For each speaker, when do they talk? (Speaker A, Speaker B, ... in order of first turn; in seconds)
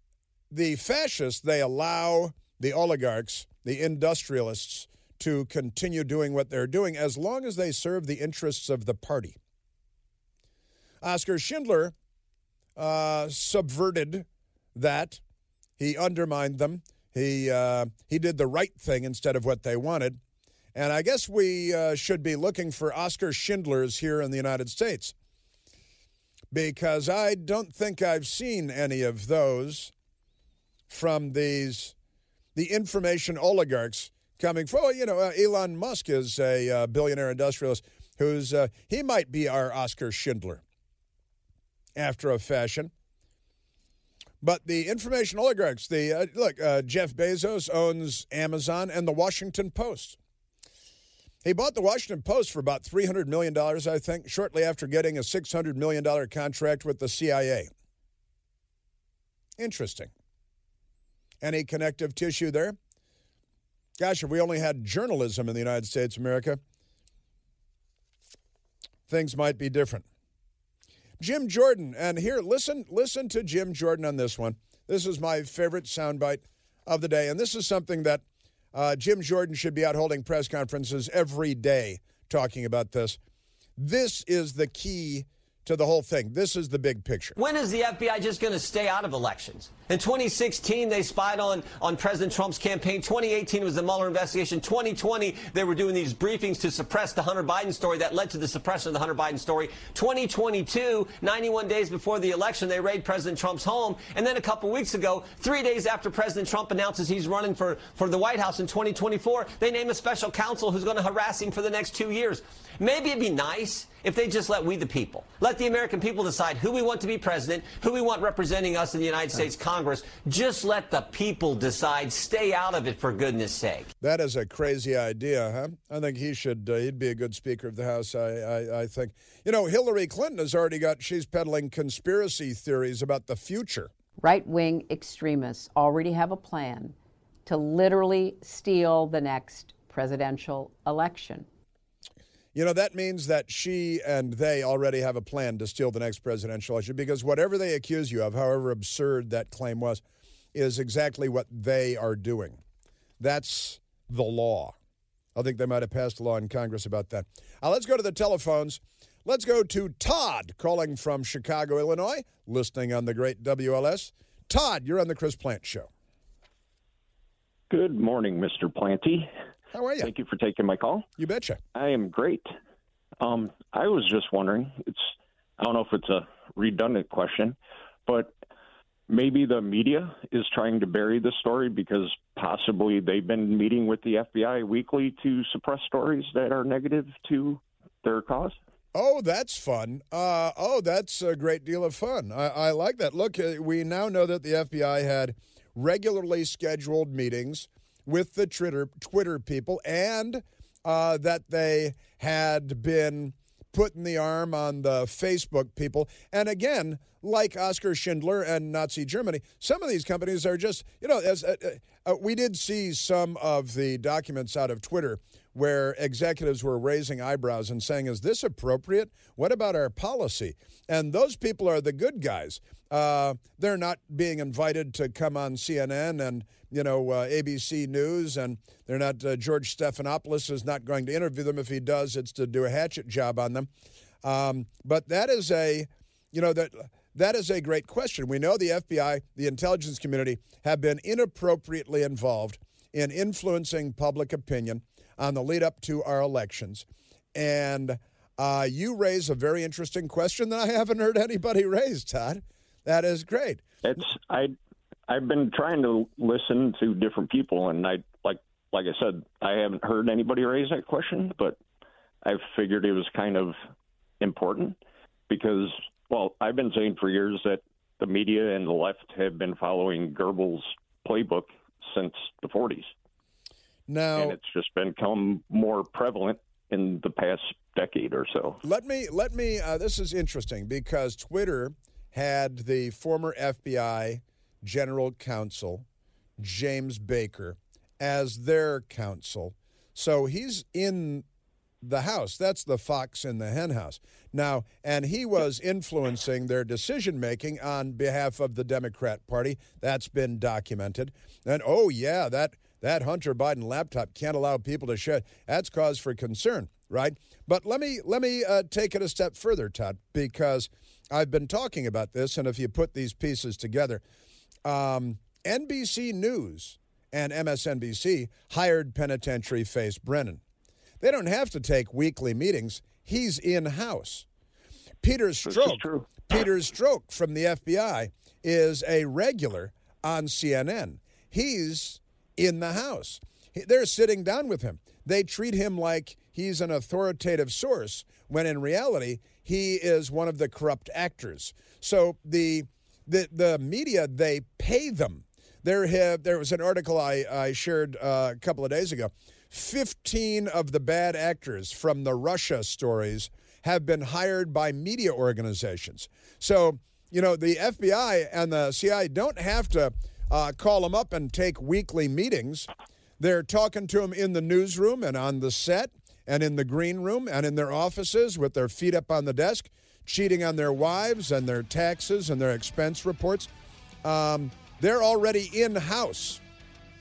Speaker A: 0.5-9.4, 11.0-11.9, 12.8-15.2, 15.8-20.2, 20.8-25.1, 26.5-29.9, 30.9-31.9, 32.5-40.6, 42.0-42.9, 44.4-50.2, 51.4-57.7, 59.6-60.1, 61.4-62.8, 64.0-66.6, 69.1-70.0, 71.2-78.2, 78.7-83.2, 83.8-87.4, 124.0-133.9, 142.6-150.0, 150.5-152.6, 153.2-154.8, 155.3-165.9, 169.7-170.1, 171.2-171.6, 188.9-233.7, 234.2-253.6, 273.9-274.4, 278.6-285.9, 286.4-291.2, 291.8-314.0, 314.6-320.4, 321.0-324.3, 325.0-362.7, 363.2-373.5, 374.0-376.4
Speaker B: 87.4-123.9
Speaker C: 134.2-136.9, 137.5-141.5
Speaker D: 167.7-169.3, 170.0-171.1, 171.8-172.5, 173.2-178.3, 179.1-188.6, 253.8-254.6, 255.1-261.6, 262.2-263.6, 264.2-264.8, 265.3-272.9, 274.1-278.6, 325.4-326.3